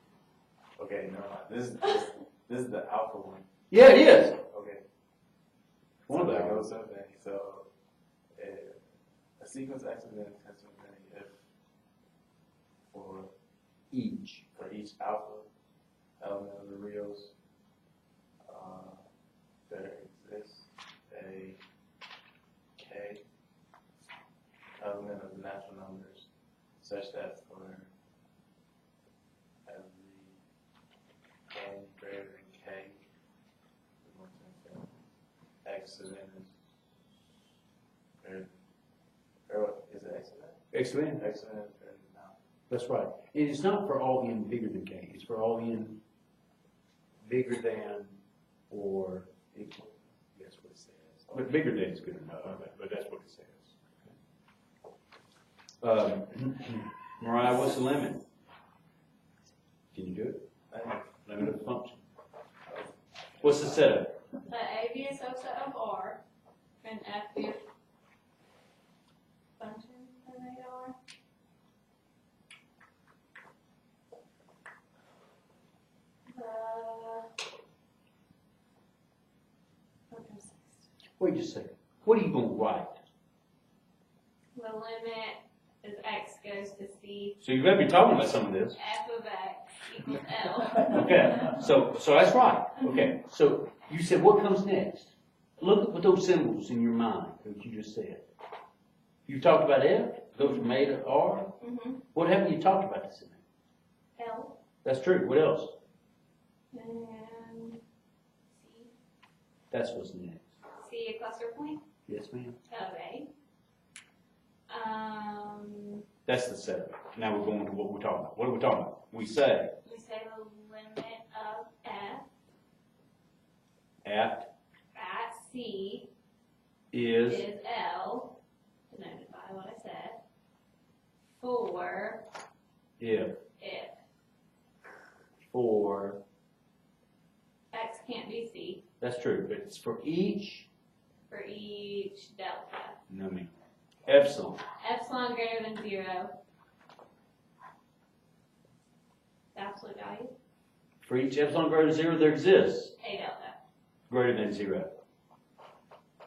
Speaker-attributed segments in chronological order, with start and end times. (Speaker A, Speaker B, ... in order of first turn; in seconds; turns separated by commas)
Speaker A: 0.8-3.5, Speaker B: 3.7-4.4, Speaker A: 4.5-4.8, Speaker B: 6.1-6.7, Speaker A: 6.1-7.7, Speaker A: 8.3-8.8, Speaker A: 9.4-11.3, Speaker A: 12.9-13.3, Speaker B: 13.9-14.4, Speaker A: 14.5-15.5, Speaker A: 16.2-17.3, Speaker A: 18.5-19.0, Speaker A: 19.7-21.6, Speaker A: 22.8-23.2, Speaker A: 24.8-26.3, Speaker A: 26.8-27.9, Speaker A: 29.6-30.4, Speaker A: 31.5-32.9, Speaker A: 34.0-34.9, Speaker A: 35.6-36.5, Speaker A: 38.2-38.5, Speaker A: 39.5-40.6, Speaker B: 40.7-41.2, Speaker A: 41.2-42.3, Speaker B: 42.7-46.0, Speaker B: 47.2-48.2, Speaker B: 48.7-49.8, Speaker B: 50.4-53.7, Speaker A: 51.2-51.5, Speaker B: 55.8-58.2, Speaker B: 59.9-60.4, Speaker A: 60.7-61.1, Speaker B: 61.2-62.0, Speaker A: 63.4-63.9, Speaker B: 63.4-64.2, Speaker C: 64.5-66.2, Speaker C: 66.8-67.6, Speaker C: 69.6-70.9, Speaker C: 76.3-77.3, Speaker C: 80.1-80.8, Speaker B: 81.2-83.0, Speaker C: 84.5-87.4, Speaker B: 87.4-88.8, Speaker C: 88.7-91.1, Speaker B: 90.8-98.2, Speaker B: 99.2-101.5, Speaker C: 101.6-102.0, Speaker B: 102.1-103.4, Speaker C: 104.2-104.6, Speaker B: 104.8-105.7, Speaker C: 106.7-107.8, Speaker C: 108.5-108.9, Speaker B: 109.7-110.4, Speaker C: 110.8-111.8, Speaker B: 112.1-112.6, Speaker C: 112.7-113.3, Speaker C: 114.7-116.0, Speaker B: 116.2-119.7, Speaker C: 119.8-122.2, Speaker B: 124.0-124.5, Speaker C: 124.9-126.1, Speaker B: 126.9-127.4, Speaker C: 127.2-128.3, Speaker C: 128.9-130.2, Speaker C: 131.4-132.2, Speaker B: 133.0-133.3, Speaker C: 133.6-134.0, Speaker B: 135.5-136.2, Speaker C: 137.7-138.8, Speaker B: 139.0-140.7, Speaker C: 141.3-142.9, Speaker B: 143.1-143.5, Speaker B: 144.1-144.6, Speaker C: 144.8-146.3, Speaker C: 149.5-150.3, Speaker B: 151.0-152.9, Speaker C: 153.0-153.6, Speaker B: 154.1-154.9